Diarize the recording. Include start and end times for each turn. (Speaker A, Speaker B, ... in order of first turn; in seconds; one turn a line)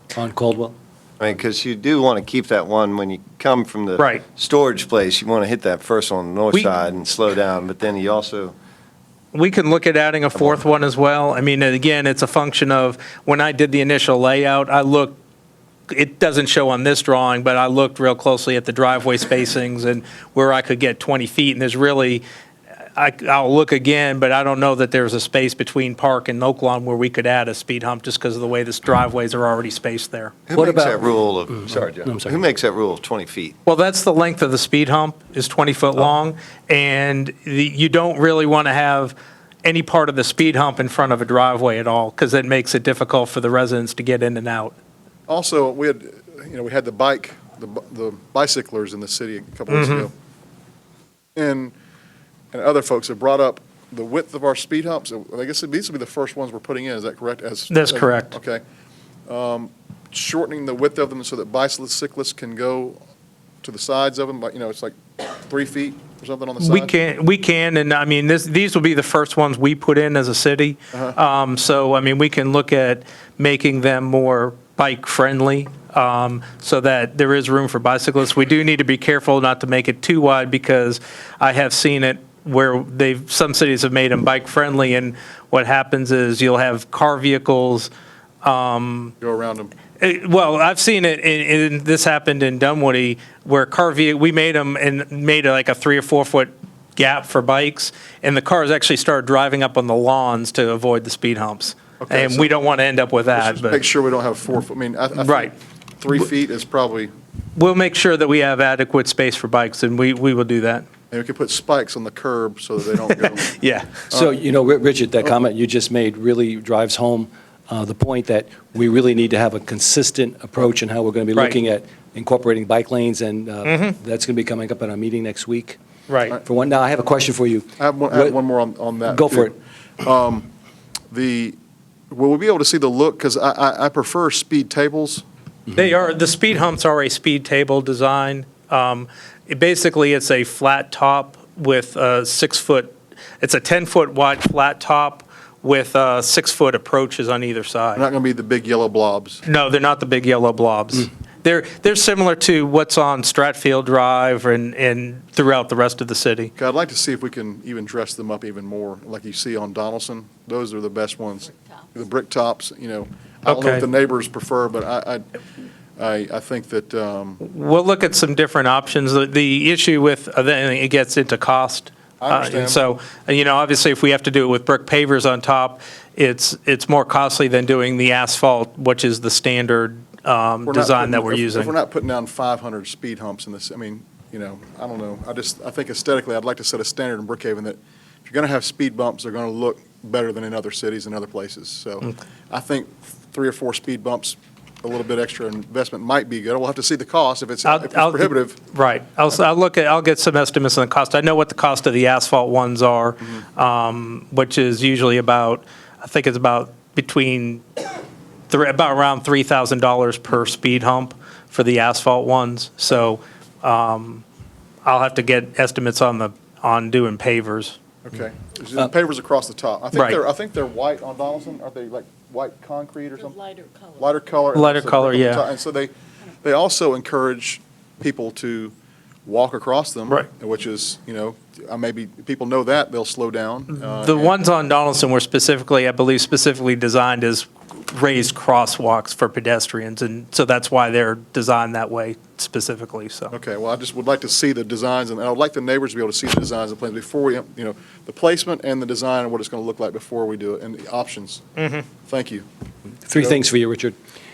Speaker A: 0.1-0.8
Speaker B: 1.2-8.6
Speaker C: 4.0-4.2
Speaker C: 9.3-15.2
Speaker C: 15.9-22.2
Speaker C: 23.0-30.4
Speaker B: 30.5-33.6
Speaker A: 30.6-32.4
Speaker C: 33.6-44.7
Speaker D: 45.3-50.1
Speaker C: 49.7-50.1
Speaker D: 51.4-51.7
Speaker D: 52.5-58.6
Speaker C: 57.7-58.4
Speaker D: 59.3-63.0
Speaker D: 63.6-67.0
Speaker C: 66.6-87.9
Speaker C: 88.4-89.1
Speaker D: 89.2-89.7
Speaker C: 90.0-103.8
Speaker D: 102.0-102.5
Speaker D: 103.3-107.1
Speaker C: 105.2-105.5
Speaker C: 107.6-110.8
Speaker D: 111.1-113.5
Speaker C: 113.2-113.9
Speaker A: 114.1-125.8
Speaker C: 123.7-124.0
Speaker C: 126.1-126.4
Speaker A: 126.4-128.4
Speaker D: 127.8-130.5
Speaker A: 129.1-129.5
Speaker D: 131.1-131.6
Speaker D: 132.1-135.2
Speaker C: 135.8-148.1
Speaker D: 147.9-149.4
Speaker C: 149.5-156.5
Speaker D: 156.6-165.2
Speaker C: 163.5-163.8
Speaker D: 166.0-167.4
Speaker C: 167.4-181.7
Speaker D: 172.2-172.9
Speaker D: 180.7-198.6
Speaker C: 197.7-207.6
Speaker C: 208.5-214.2
Speaker C: 214.8-217.8
Speaker D: 218.0-228.7
Speaker C: 224.6-225.4
Speaker D: 229.3-234.3
Speaker C: 233.8-243.3
Speaker D: 243.3-251.4
Speaker C: 251.6-251.8
Speaker D: 252.1-252.4
Speaker A: 253.1-253.9